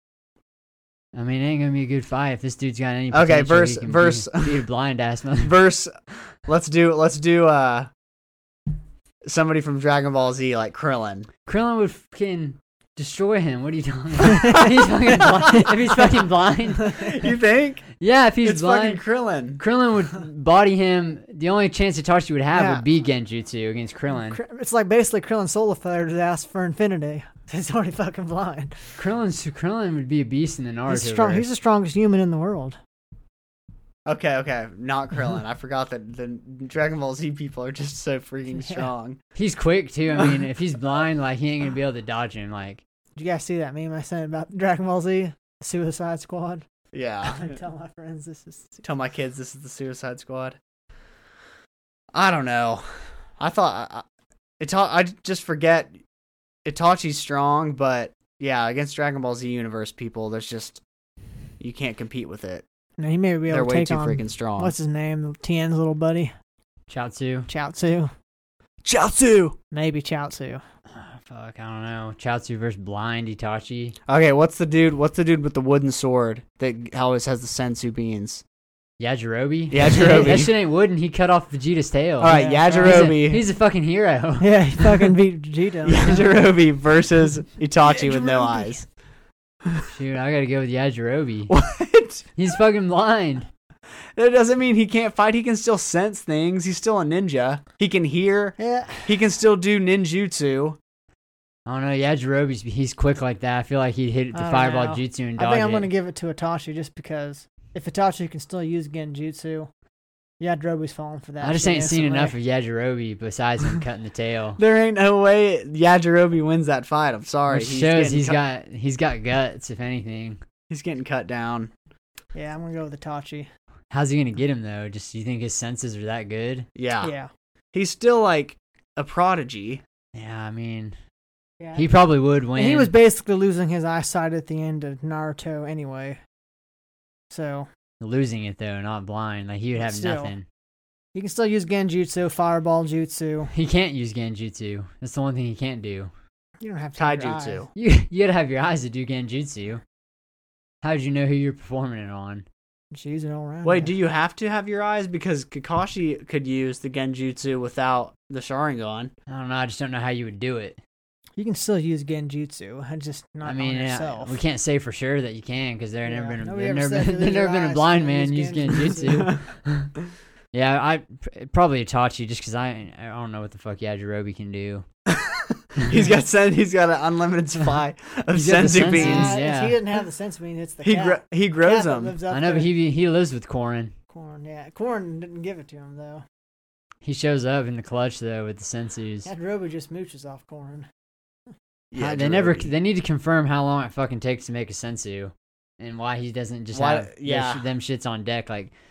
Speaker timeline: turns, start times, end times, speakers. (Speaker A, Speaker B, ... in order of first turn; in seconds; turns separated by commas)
Speaker A: 1.1-5.6, Speaker B: 3.1-4.7, Speaker B: 5.4-5.9, Speaker B: 6.5-7.9, Speaker B: 9.2-11.3, Speaker A: 11.5-17.2, Speaker B: 17.0-17.9, Speaker A: 18.0-19.0, Speaker B: 18.4-19.6, Speaker A: 19.6-24.4, Speaker C: 22.5-22.8, Speaker C: 24.2-29.0, Speaker A: 29.0-31.5, Speaker C: 30.9-32.8, Speaker B: 34.1-39.2, Speaker C: 38.6-38.9, Speaker A: 39.4-42.8, Speaker C: 43.2-46.6, Speaker B: 46.9-47.5, Speaker C: 47.2-48.8, Speaker B: 48.8-50.6, Speaker B: 52.1-52.9, Speaker B: 53.4-54.0, Speaker B: 54.6-56.0, Speaker B: 56.7-60.8, Speaker B: 61.6-62.6, Speaker C: 63.0-66.3, Speaker B: 63.5-64.7, Speaker A: 66.9-67.5, Speaker C: 67.5-68.1, Speaker B: 68.8-69.6, Speaker C: 69.7-70.6, Speaker A: 70.9-74.0, Speaker B: 74.1-78.4, Speaker A: 79.0-85.1, Speaker B: 79.7-80.5, Speaker B: 82.2-83.4, Speaker C: 82.3-83.2, Speaker C: 84.4-86.4, Speaker B: 85.8-88.8, Speaker C: 87.8-88.8, Speaker A: 89.9-91.5, Speaker B: 91.5-92.3, Speaker A: 92.3-93.5, Speaker B: 94.2-100.8, Speaker C: 98.6-99.1, Speaker A: 101.7-105.9, Speaker C: 104.3-109.7, Speaker C: 110.4-112.3, Speaker A: 111.4-114.6, Speaker B: 114.6-118.4, Speaker A: 117.5-120.4, Speaker B: 120.7-121.7, Speaker C: 122.3-123.5, Speaker A: 123.9-126.7, Speaker B: 126.8-127.1, Speaker C: 127.0-127.3, Speaker B: 127.7-129.8, Speaker A: 130.1-131.0, Speaker C: 131.6-131.9, Speaker A: 131.8-132.9, Speaker C: 132.5-136.2, Speaker C: 137.3-137.7, Speaker A: 138.0-140.5, Speaker C: 139.8-140.3, Speaker C: 141.2-143.5, Speaker A: 143.5-146.1, Speaker C: 146.6-147.7, Speaker B: 147.0-147.7, Speaker A: 147.8-149.8, Speaker A: 150.8-152.5, Speaker C: 152.9-153.9, Speaker B: 153.6-159.1, Speaker A: 159.3-160.8, Speaker C: 161.4-164.3, Speaker A: 163.4-169.9, Speaker C: 166.1-169.3, Speaker A: 170.5-174.8, Speaker B: 175.1-179.3, Speaker A: 178.3-179.8, Speaker C: 178.8-182.7, Speaker B: 180.8-182.2, Speaker A: 182.3-183.9, Speaker C: 184.1-186.2, Speaker A: 187.0-189.3, Speaker C: 189.2-190.9, Speaker B: 191.9-192.7, Speaker A: 192.0-198.7, Speaker B: 196.7-197.7